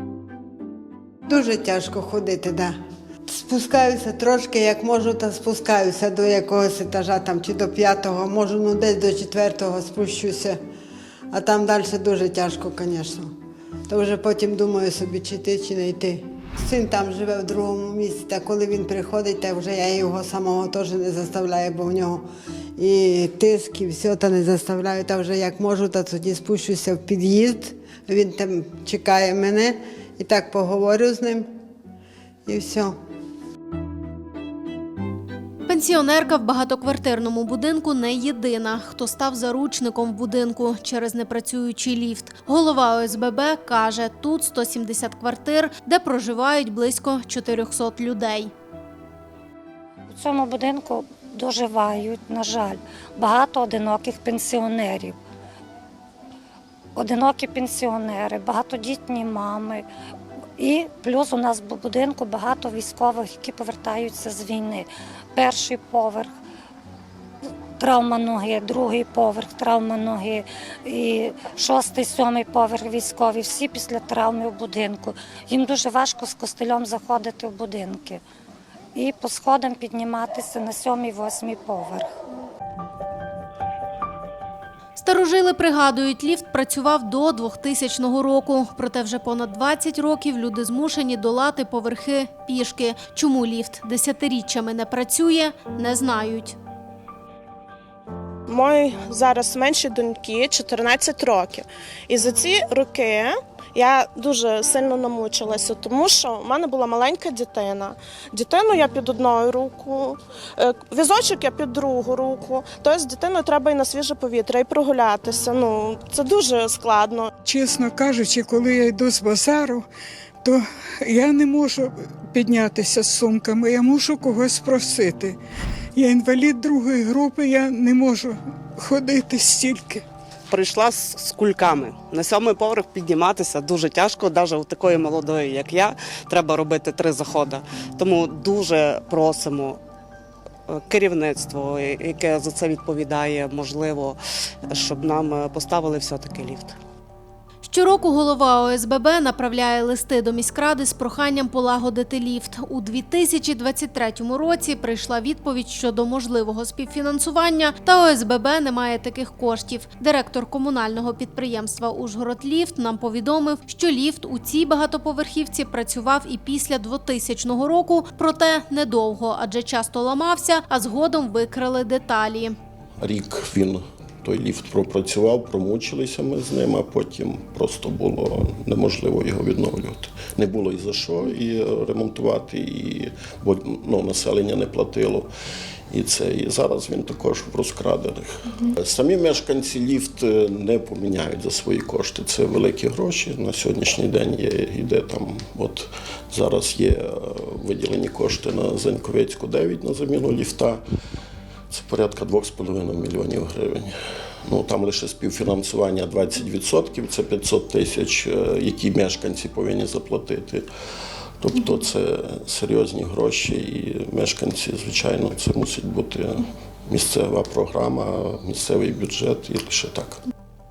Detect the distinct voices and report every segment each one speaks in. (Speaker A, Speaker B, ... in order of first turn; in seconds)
Speaker A: 1.3-2.8, 3.3-10.6, 11.3-13.3, 13.9-22.2, 22.8-31.5, 32.5-32.9
Speaker B: 35.7-48.5, 85.0-96.6, 147.6-172.6
Speaker C: 50.1-55.2, 57.0-59.9, 60.6-66.3, 67.8-78.2, 79.0-82.1
Speaker D: 98.5-117.3
Speaker E: 117.4-119.9, 120.4-125.4, 126.0-130.1
Speaker F: 130.5-139.7, 140.9-144.2, 144.8-146.7
Speaker G: 173.0-185.3, 185.9-200.8, 201.7-203.9, 204.5-210.7, 211.4-220.2